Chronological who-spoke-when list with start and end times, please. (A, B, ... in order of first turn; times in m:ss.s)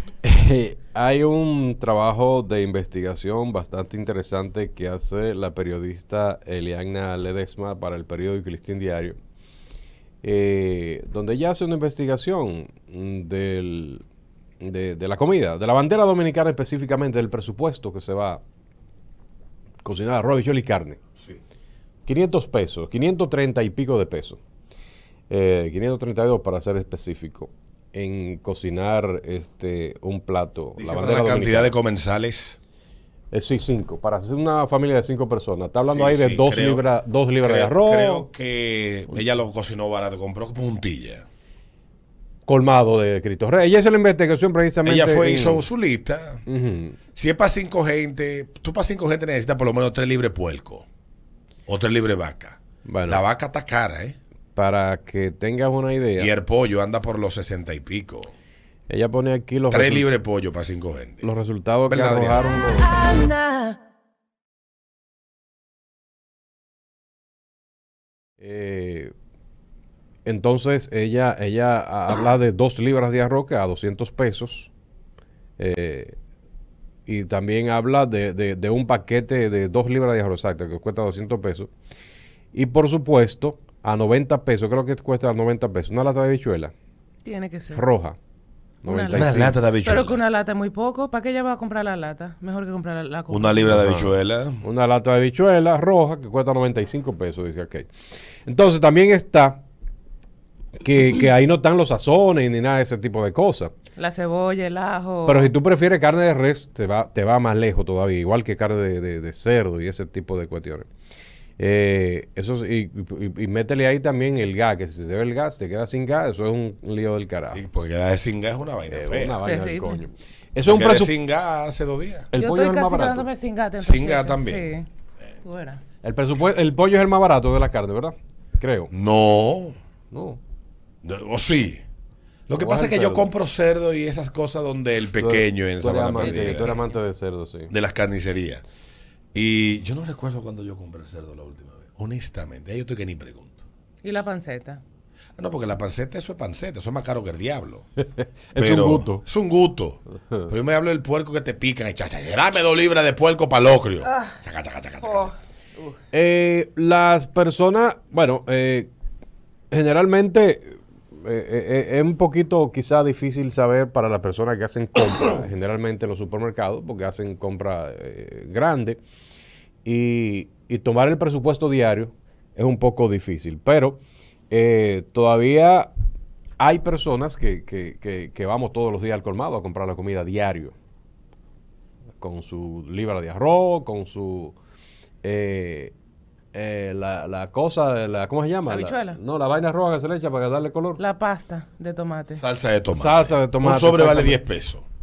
0:00.2-0:09.2 A
0:10.2-0:14.0 A
0:14.6-0:18.4 A
0:19.8-0:21.0 A
0:22.1-0:24.4 A
0:25.3-0:31.8 A
0:30.8-0:32.6 B
0:33.3-0:38.3 A
0:35.8-0:36.8 B
0:37.4-0:41.2 B
0:42.5-0:45.7 A
0:44.8-0:46.4 B
0:46.5-0:47.0 A
0:47.2-0:50.9 B
0:51.7-0:54.2 B
0:52.8-0:53.2 A
0:54.6-0:56.3 A
0:56.2-0:58.3 B
0:58.9-1:00.1 A
0:59.7-1:01.3 B
1:01.2-1:03.0 A
1:01.9-1:02.5 B
1:08.4-1:09.1 A
1:10.2-1:14.7 A
1:15.6-1:16.2 A
1:17.1-1:21.7 A
1:22.5-1:26.7 A
1:27.2-1:27.8 C
1:27.7-1:28.2 A
1:28.8-1:29.6 A
1:28.9-1:33.7 C
1:29.1-1:30.2 B
1:33.3-1:34.6 B
1:33.7-1:37.9 A
1:38.5-1:39.6 A
1:40.8-1:43.7 A
1:44.0-1:45.5 C
1:45.3-1:50.9 A
1:51.6-1:57.6 A
1:57.5-1:59.4 B
1:58.9-2:01.1 A
1:59.5-2:00.0 C
2:00.6-2:02.3 B
2:02.3-2:03.3 A
2:02.4-2:04.9 C
2:03.8-2:04.7 B
2:05.4-2:05.8 C
2:06.0-2:08.9 A
2:08.9-2:09.8 B
2:10.1-2:10.4 A
2:11.0-2:11.8 B
2:12.5-2:16.8 B
2:12.6-2:13.3 A
2:15.2-2:17.7 A
2:16.3-2:16.7 C
2:17.7-2:18.6 B
2:19.3-2:23.5 B
2:24.0-2:24.8 C
2:25.4-2:27.9 B
2:28.0-2:29.2 A
2:28.6-2:35.3 B
2:36.1-2:38.9 A
2:39.7-2:49.0 A
2:49.8-2:55.9 A
2:56.6-3:00.7 A
3:02.2-3:04.6 A
3:05.2-3:05.9 A
3:06.5-3:11.0 A
3:08.7-3:09.2 C
3:11.0-3:12.4 C
3:12.4-3:14.9 B
3:12.9-3:14.4 A